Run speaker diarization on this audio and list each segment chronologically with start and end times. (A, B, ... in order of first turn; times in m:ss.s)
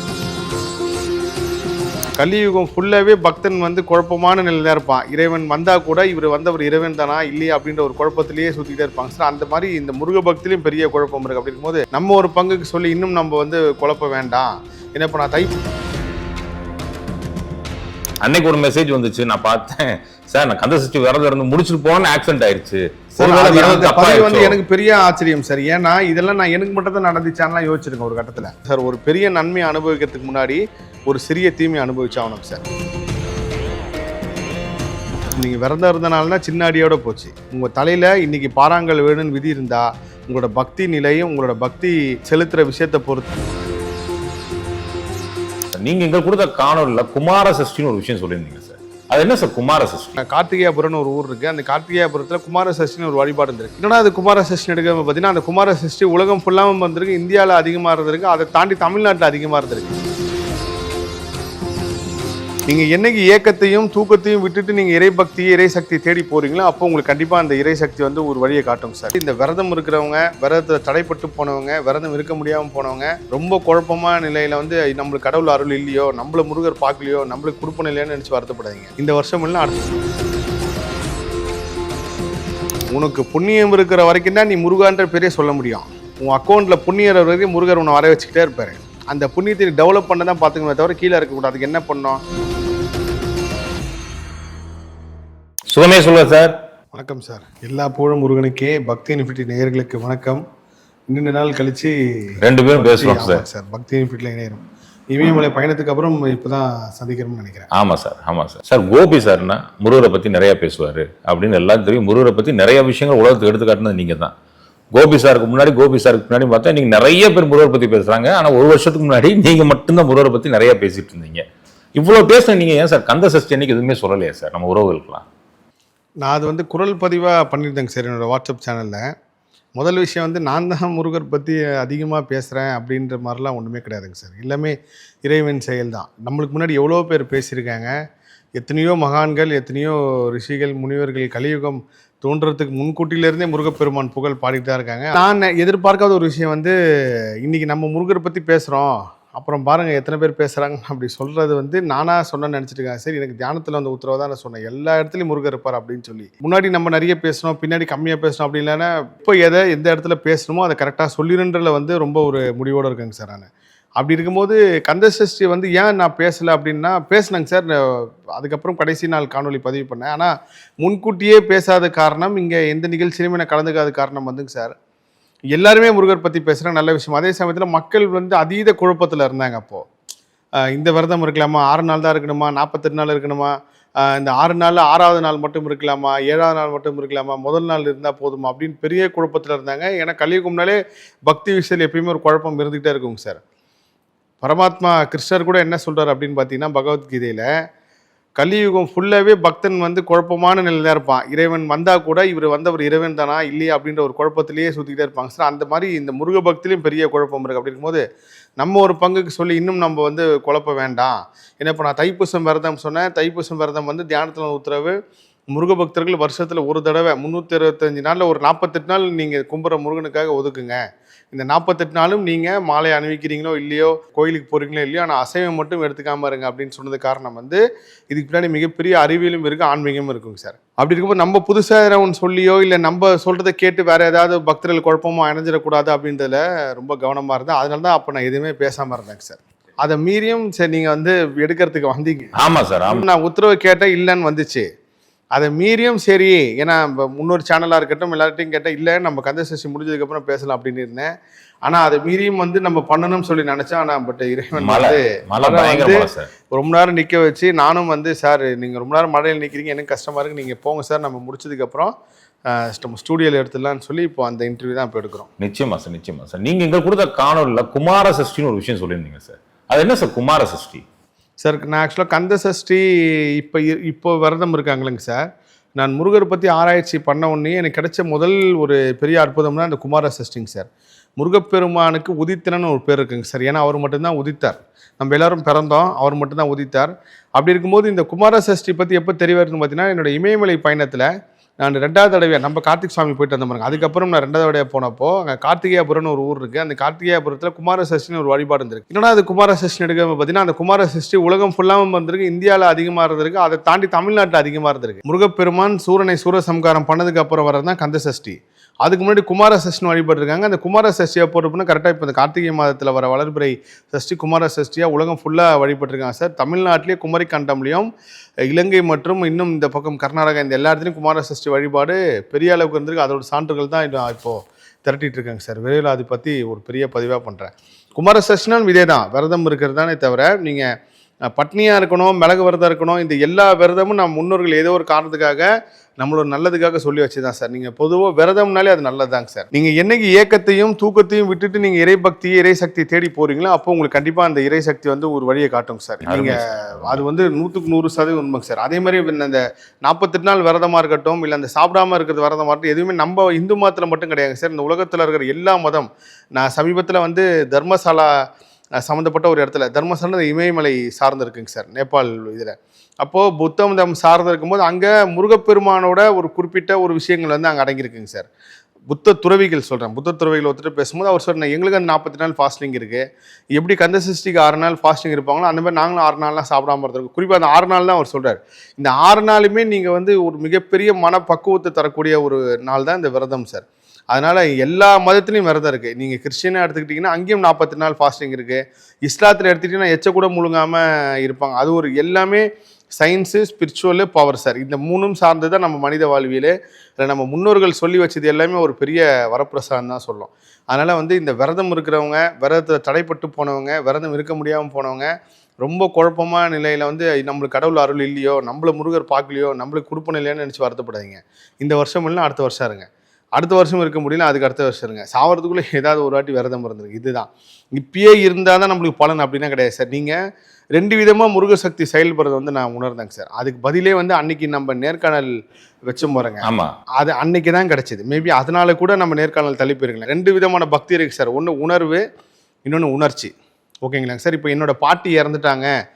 0:02.2-0:15.5 A
0:18.2-0:24.6 B
0:23.2-0:32.6 A
0:35.4-0:43.5 A
0:45.7-0:50.2 B
0:50.2-1:00.0 A
1:02.7-1:19.9 A
1:22.9-1:32.2 A
1:35.7-1:36.6 B
1:36.9-1:40.4 A
1:41.1-1:47.7 A
1:42.4-1:43.4 B
1:47.7-1:54.3 B
1:54.9-2:01.4 B
2:02.0-2:05.2 B
2:06.2-2:09.0 A
2:09.8-2:17.9 A
2:18.6-2:26.7 A
2:27.4-2:43.5 A
2:44.0-2:54.7 A
2:55.5-2:59.8 A
3:00.7-3:13.4 A
3:14.4-3:17.5 A
3:18.4-3:28.0 A
3:28.6-3:35.0 A
3:35.5-3:40.8 A
3:41.3-4:02.3 A
4:02.4-4:03.0 B
4:02.9-4:04.6 A
4:05.3-4:11.1 A
4:11.6-4:21.9 A
4:14.6-4:16.3 B
4:22.5-4:25.3 A
4:25.4-4:30.8 B
4:31.4-4:35.2 A
4:35.8-4:40.7 A
4:41.2-4:51.1 A
4:51.6-5:17.9 A
5:18.5-5:30.7 A
5:31.3-5:35.5 A
5:36.0-5:58.2 A
5:46.0-5:47.0 B
5:58.8-6:08.3 A
6:08.9-6:13.0 A
6:13.6-6:32.4 A
6:33.0-6:45.1 A
6:45.6-7:00.2 A
7:00.7-7:05.3 A
7:05.9-7:06.5 A
7:06.4-7:06.7 B
7:07.0-7:12.0 A
7:12.6-7:13.3 A
7:13.8-7:15.7 A